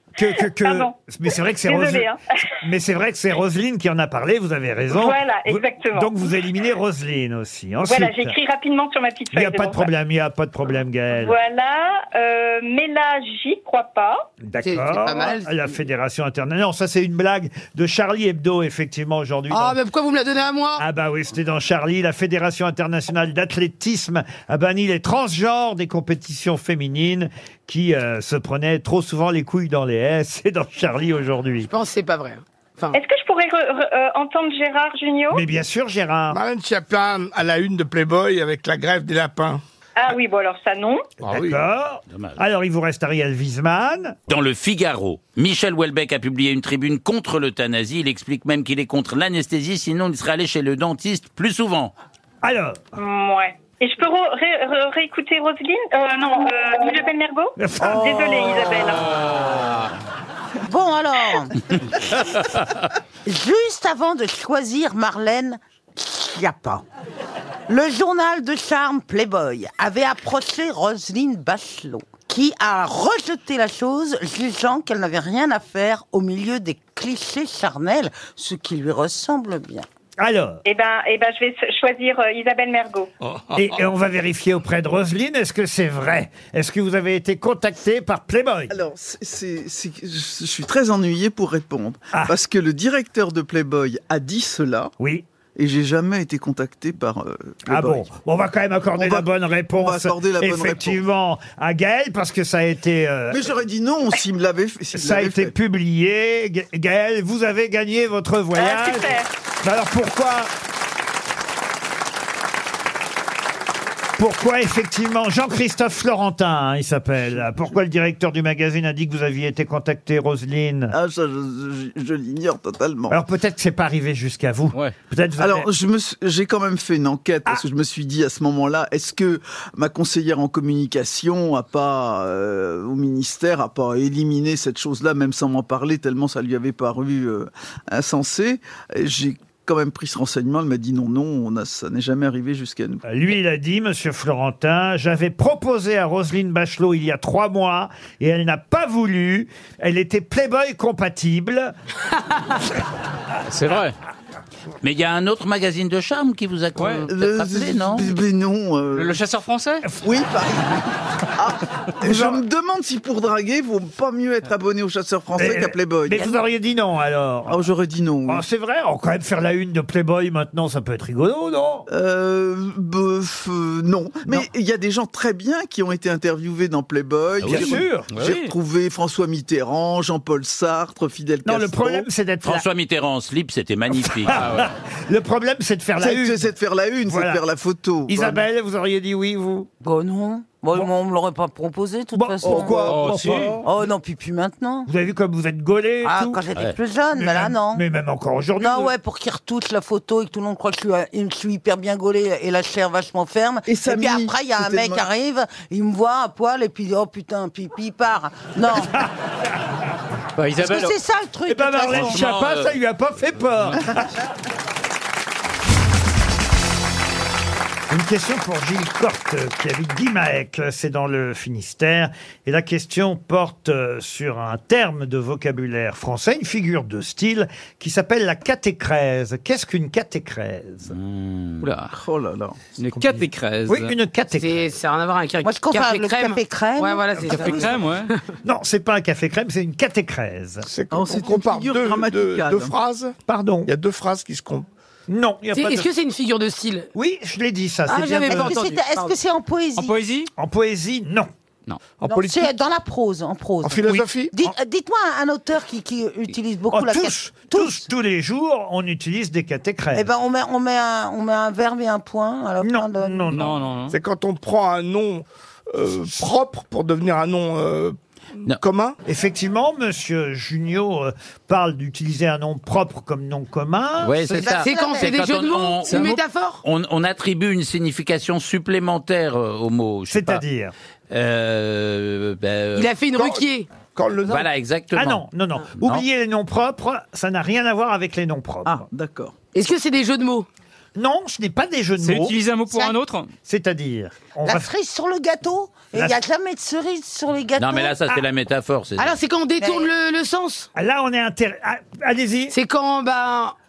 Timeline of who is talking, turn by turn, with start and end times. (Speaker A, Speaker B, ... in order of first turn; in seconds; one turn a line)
Speaker A: 0.2-2.1
Speaker B: 0.3-2.2
Speaker A: 2.6-8.3
Speaker B: 4.9-6.1
Speaker B: 7.8-9.9
Speaker A: 9.3-11.4
Speaker B: 11.2-14.3
Speaker A: 14.4-19.8
Speaker C: 14.6-15.5
Speaker C: 19.5-20.8
Speaker A: 20.8-31.7
Speaker C: 31.6-33.0
Speaker B: 32.9-35.4
Speaker A: 35.3-36.4
Speaker D: 36.3-39.6
Speaker B: 40.0-41.1
Speaker D: 41.2-41.6
Speaker A: 41.2-44.2
Speaker E: 42.1-42.4
Speaker E: 44.3-51.9
Speaker A: 52.4-52.9
Speaker B: 53.0-59.3
Speaker A: 57.6-58.5
Speaker F: 60.6-61.6
Speaker F: 63.2-66.8
Speaker F: 67.7-79.8
Speaker A: 80.2-80.6
Speaker B: 80.6-83.1
Speaker D: 83.2-83.7
Speaker A: 83.5-88.8
Speaker G: 88.7-94.9
Speaker A: 95.0-95.2
Speaker G: 95.5-98.0
Speaker A: 97.7-103.5
Speaker G: 99.0-101.0
Speaker G: 103.3-105.5
Speaker A: 104.9-110.5
Speaker B: 108.5-109.3
Speaker A: 114.2-120.9
Speaker G: 120.9-123.2
Speaker A: 123.1-125.7
Speaker G: 125.4-143.0
Speaker A: 143.0-151.7
Speaker H: 153.5-153.9
Speaker E: 154.8-158.1
Speaker H: 156.8-157.1
Speaker G: 157.1-159.2
Speaker H: 158.9-159.8
Speaker G: 160.0-160.8
Speaker G: 161.3-166.3
Speaker A: 162.0-162.4
Speaker A: 165.3-167.6
Speaker G: 167.5-168.4
Speaker A: 168.3-171.9
Speaker G: 171.9-182.1
Speaker E: 177.4-177.7
Speaker A: 177.4-178.1
Speaker H: 178.1-178.5
Speaker A: 181.4-182.7
Speaker E: 182.4-184.4
Speaker A: 183.9-186.5
Speaker H: 184.3-184.7
Speaker G: 186.0-188.4
Speaker A: 187.1-187.4
Speaker A: 188.1-189.7
Speaker F: 189.8-193.1
Speaker A: 192.1-193.5
Speaker G: 192.4-193.7
Speaker H: 192.8-193.5
Speaker F: 193.6-194.9
Speaker A: 194.9-196.4
Speaker F: 196.0-197.8
Speaker A: 197.1-198.9
Speaker F: 198.6-209.0
Speaker G: 203.7-205.1
Speaker H: 210.4-211.0
Speaker F: 210.6-212.2
Speaker A: 211.5-214.1
Speaker H: 211.9-212.6
Speaker A: 217.9-230.9
Speaker E: 230.9-231.7
Speaker H: 231.6-231.9
Speaker G: 231.9-232.6
Speaker H: 232.8-233.9
Speaker A: 233.7-234.6
Speaker C: 234.4-237.8
Speaker F: 235.4-237.8
Speaker H: 237.3-238.1
Speaker A: 238.4-240.7
Speaker D: 240.7-244.7
Speaker G: 240.9-242.8
Speaker A: 243.3-243.7
Speaker A: 245.1-245.9
Speaker C: 245.5-246.9
Speaker A: 246.9-248.6
Speaker C: 247.9-249.2
Speaker F: 248.3-250.0
Speaker H: 249.8-250.3
Speaker A: 250.3-251.3
Speaker D: 252.0-252.5
Speaker F: 252.1-257.8
Speaker D: 253.6-254.3
Speaker A: 256.7-260.1
Speaker F: 259.9-263.3
Speaker A: 262.6-263.6
Speaker H: 263.3-264.0
Speaker D: 263.9-268.0
Speaker D: 268.5-268.9
Speaker A: 269.1-274.5
Speaker E: 274.0-280.4
Speaker F: 274.4-275.2
Speaker C: 274.6-276.6
Speaker H: 275.9-276.2
Speaker A: 280.1-280.7
Speaker E: 281.1-282.9
Speaker C: 282.7-283.7
Speaker D: 283.1-284.4
Speaker E: 284.3-285.2
Speaker A: 284.9-288.9
Speaker G: 288.6-289.3
Speaker C: 289.5-290.5
Speaker A: 290.9-292.4
Speaker H: 292.0-293.3
Speaker A: 293.4-294.7
Speaker F: 294.4-297.9
Speaker E: 297.6-299.1
Speaker C: 299.0-300.7
Speaker F: 299.6-299.9
Speaker A: 300.7-302.5
Speaker C: 302.5-303.5